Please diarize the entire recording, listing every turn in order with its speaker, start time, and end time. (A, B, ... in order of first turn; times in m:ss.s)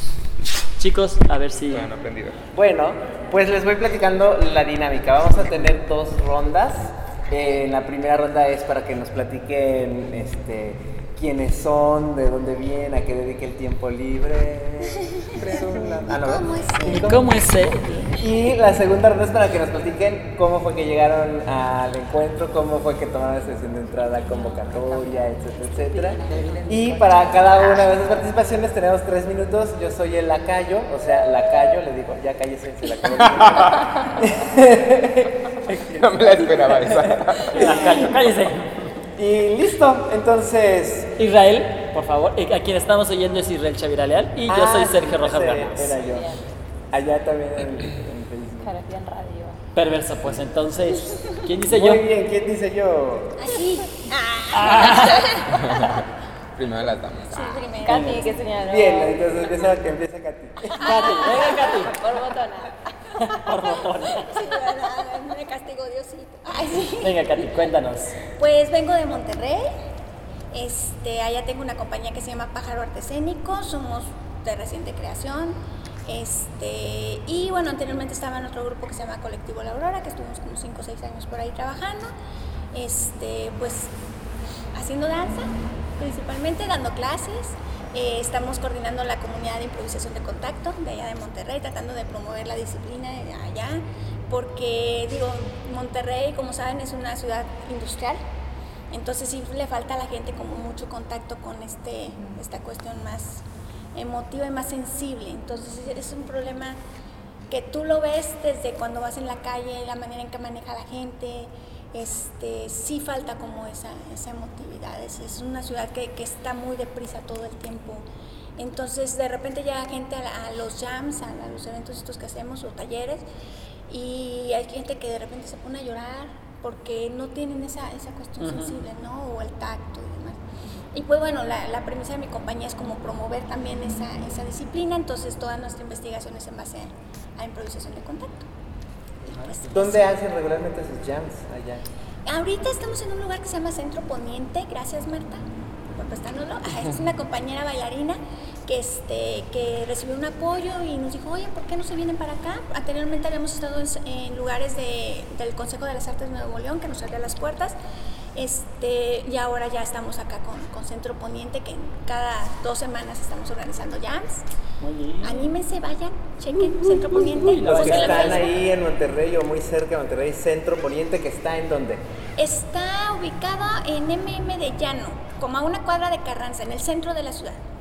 0:00.8-0:01.9 A
0:01.7-0:02.4 B
0:02.5-0:17.4 C
0:15.3-0:18.4 D
0:15.4-0:16.4 B
0:16.8-0:17.8 A
0:18.1-0:38.1 C
0:24.3-0:27.8 E
0:33.2-0:33.8 B
0:36.0-0:37.7 B
0:37.5-0:39.0 A
0:39.2-0:41.1 C
0:41.2-0:46.0 A
0:44.5-0:46.4 C
0:46.0-0:46.4 E
0:46.9-0:48.7 C
0:48.6-0:49.6 E
0:49.7-0:52.0 A
0:51.6-0:53.3 C
0:53.4-0:56.0 D
0:54.5-0:55.4 A
0:55.5-0:56.0 B
0:56.6-0:57.7 B
0:57.3-0:58.4 D
0:57.8-0:59.3 E
0:57.9-0:58.2 A
0:58.5-1:01.2 C
1:00.8-1:02.0 A
1:00.8-1:03.4 E
1:00.9-1:01.8 D
1:03.2-1:04.4 A
1:04.1-1:07.7 D
1:07.0-1:08.2 A
1:08.3-1:09.7 D
1:10.5-1:22.1 D
1:22.7-1:23.9 D
1:24.7-1:38.2 D
1:38.9-1:43.4 D
1:43.9-1:46.8 D
1:47.5-1:58.0 D
1:58.6-2:03.2 D
2:03.9-2:10.4 D
2:08.4-2:08.8 A
2:10.9-2:18.5 D
2:19.3-2:20.2 D
2:19.3-2:19.6 A
2:19.7-2:21.8 C
2:22.2-2:37.8 D
2:38.3-2:44.4 D
2:44.8-2:45.5 A
2:45.2-2:48.6 D
2:46.6-2:48.4 A
2:47.6-2:52.0 C
2:52.4-2:57.6 D